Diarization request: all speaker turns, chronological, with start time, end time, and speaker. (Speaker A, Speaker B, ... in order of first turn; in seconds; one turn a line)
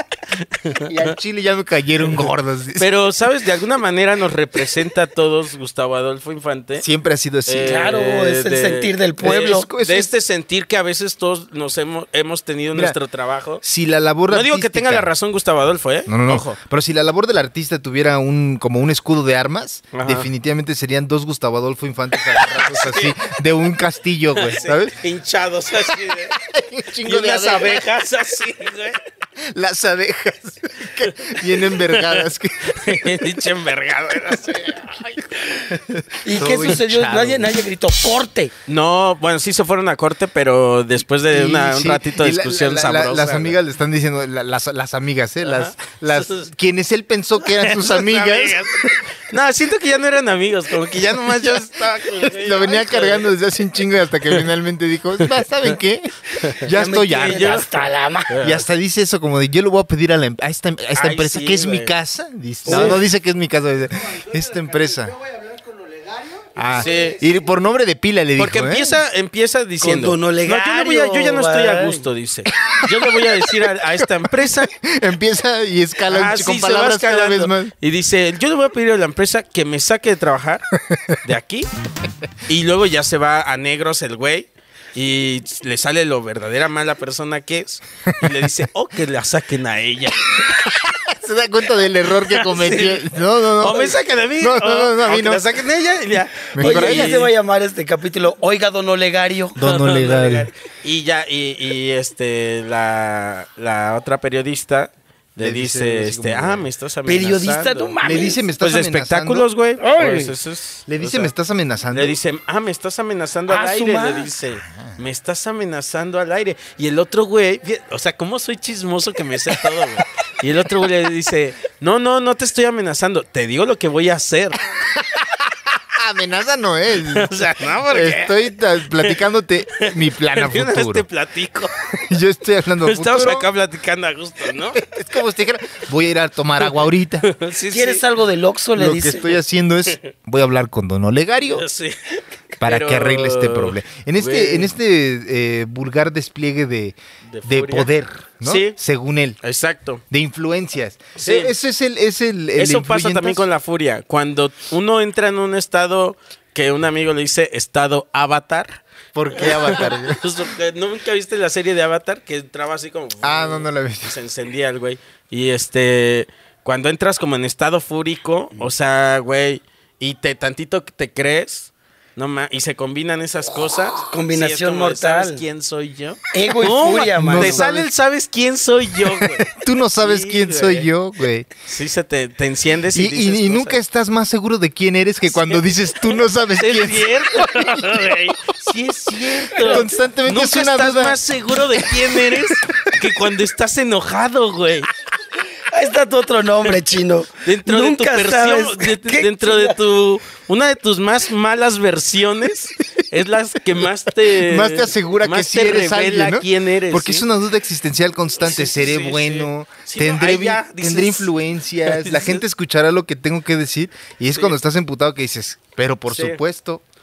Speaker A: 0.4-1.1
Speaker B: 0.8-2.9
Speaker A: 2.8-6.8
Speaker B: 6.8-7.8
Speaker A: 7.5-13.6
Speaker C: 7.6-9.7
Speaker B: 9.2-10.1
Speaker B: 13.6-15.1
Speaker A: 14.3-16.6
Speaker B: 16.1-25.0
Speaker A: 19.9-20.3
Speaker A: 22.2-23.2
Speaker A: 24.4-26.4
Speaker B: 26.3-27.9
Speaker A: 27.0-29.0
Speaker B: 29.4-33.2
Speaker A: 31.0-35.5
Speaker B: 35.7-37.5
Speaker C: 36.2-38.5
Speaker A: 38.7-43.6
Speaker B: 41.3-48.9
Speaker A: 45.4-46.5
Speaker A: 47.4-53.4
Speaker B: 51.2-57.6
Speaker A: 56.4-58.6
Speaker C: 56.7-58.4
Speaker B: 58.4-65.1
Speaker A: 60.9-61.9
Speaker A: 62.6-63.0
Speaker C: 62.6-63.0
Speaker D: 64.9-67.2
Speaker B: 66.5-69.0
Speaker A: 66.7-67.2
Speaker A: 68.4-74.7
Speaker C: 69.8-72.0
Speaker B: 72.5-77.7
Speaker A: 76.1-80.7
Speaker B: 80.8-81.2
Speaker A: 81.2-81.7
Speaker A: 82.5-90.8
Speaker B: 90.7-95.6
Speaker A: 92.2-97.3
Speaker B: 96.5-97.3
Speaker C: 96.6-99.6
Speaker B: 99.5-100.5
Speaker A: 99.6-111.3
Speaker B: 105.4-106.7
Speaker C: 107.0-108.4
Speaker B: 108.0-109.5
Speaker C: 109.8-110.3
Speaker B: 110.9-112.2
Speaker A: 111.9-124.6
Speaker C: 113.5-114.3
Speaker B: 114.7-115.0
Speaker B: 125.0-127.3
Speaker A: 127.0-129.2
Speaker B: 127.8-131.1
Speaker A: 129.8-131.8
Speaker B: 132.0-133.5
Speaker A: 132.8-134.8
Speaker B: 134.8-137.3
Speaker A: 137.2-138.0
Speaker C: 137.7-139.3
Speaker B: 138.8-141.6
Speaker A: 141.5-142.0
Speaker B: 142.6-149.4
Speaker A: 142.6-144.7
Speaker A: 147.3-147.9
Speaker A: 148.4-148.7
Speaker A: 149.4-150.0
Speaker B: 150.1-153.5
Speaker A: 151.2-151.5
Speaker A: 152.6-158.8
Speaker B: 159.1-160.2
Speaker A: 159.3-180.9
Speaker B: 163.2-164.2
Speaker C: 173.9-175.4
Speaker C: 176.3-177.7
Speaker B: 177.1-177.9
Speaker B: 179.0-181.5
Speaker A: 181.6-183.8
Speaker B: 182.9-188.1
Speaker A: 185.3-194.9
Speaker C: 189.5-189.9
Speaker B: 189.6-191.2
Speaker B: 191.9-192.9
Speaker C: 195.6-199.8
Speaker A: 197.4-207.2
Speaker B: 203.8-216.8
Speaker A: 208.4-211.3
Speaker A: 211.8-212.4
Speaker A: 216.1-216.4